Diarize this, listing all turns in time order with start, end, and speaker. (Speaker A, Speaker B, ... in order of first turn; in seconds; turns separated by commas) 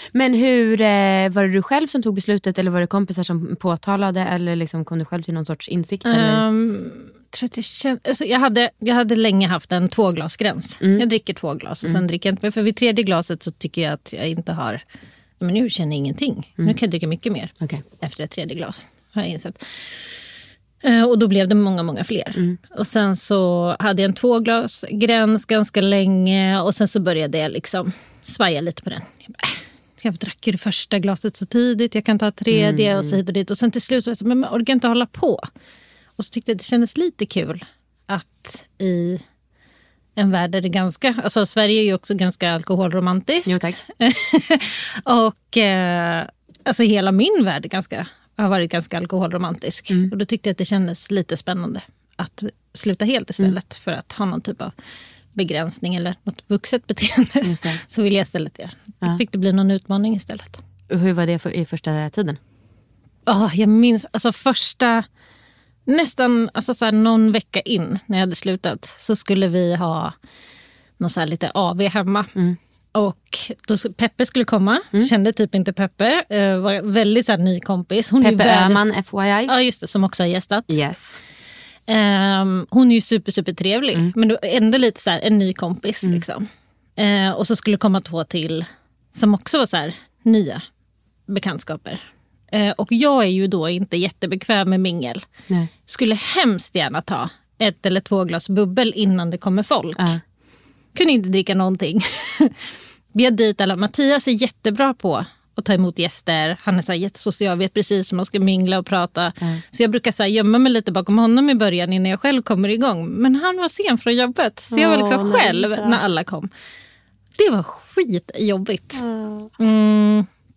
Speaker A: 0.1-6.4, Speaker B: 6.0-14.8, Speaker A: 10.8-11.1, Speaker B: 15.4-20.0, Speaker B: 20.8-35.5, Speaker A: 32.5-33.2, Speaker B: 36.2-39.2, Speaker B: 40.2-54.7, Speaker A: 43.5-43.8, Speaker B: 55.3-60.6, Speaker A: 57.4-57.8, Speaker A: 60.9-62.4, Speaker B: 63.3-65.0, Speaker B: 65.9-70.1, Speaker B: 71.0-72.3, Speaker B: 72.9-78.9, Speaker A: 78.2-79.5, Speaker B: 79.5-80.7, Speaker A: 80.7-81.2, Speaker B: 81.9-86.5, Speaker B: 87.0-90.6, Speaker B: 91.3-95.2, Speaker B: 95.9-100.2, Speaker B: 100.9-102.6, Speaker B: 103.1-116.5, Speaker A: 114.7-116.0, Speaker B: 117.3-119.0, Speaker A: 118.9-119.5, Speaker B: 119.6-120.3